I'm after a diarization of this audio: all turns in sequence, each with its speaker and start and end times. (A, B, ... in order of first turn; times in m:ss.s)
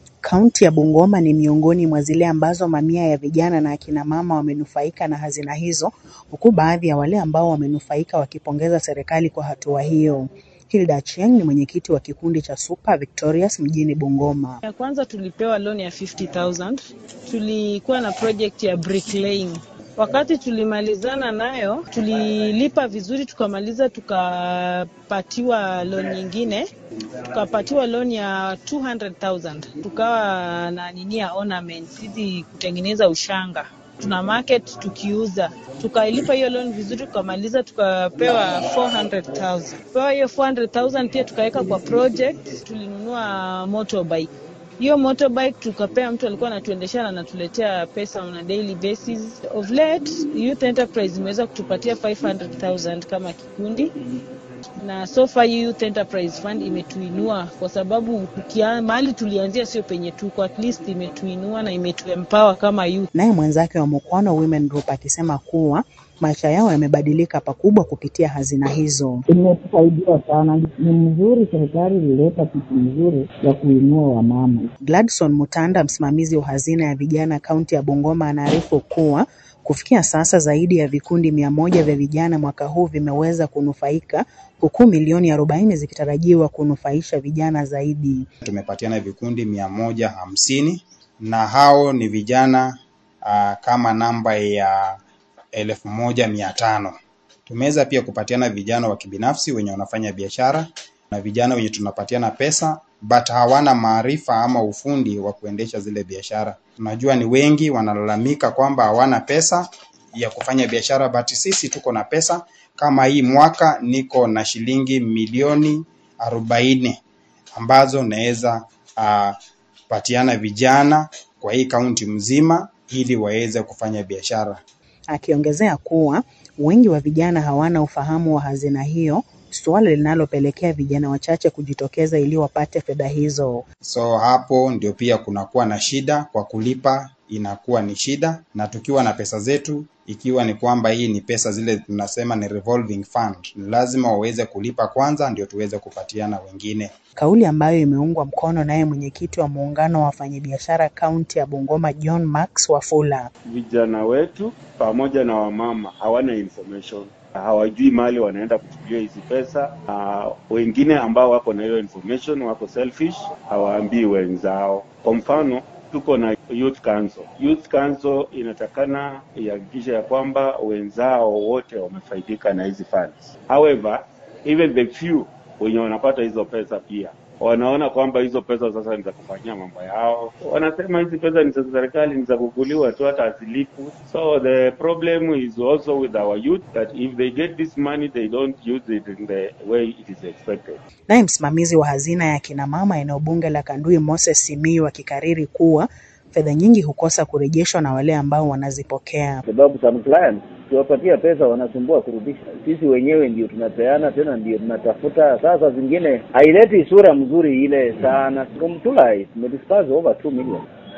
0:00.2-0:14.6 A
0:14.6-0:26.7 B
0:27.3-0:53.9 B
0:54.8-1:03.1 B
1:03.1-1:09.2 A
1:09.3-1:14.7 C
1:14.8-1:28.2 A
1:28.4-1:32.7 D
1:33.2-1:35.0 D
1:35.5-1:36.9 D
1:37.4-1:57.0 D
1:57.6-1:59.4 D
1:59.9-2:04.6 D
2:05.1-2:13.6 A
2:13.8-2:26.9 D
2:27.2-2:33.3 A
2:33.4-3:10.8 E
3:11.1-3:19.4 A
3:19.5-3:30.6 F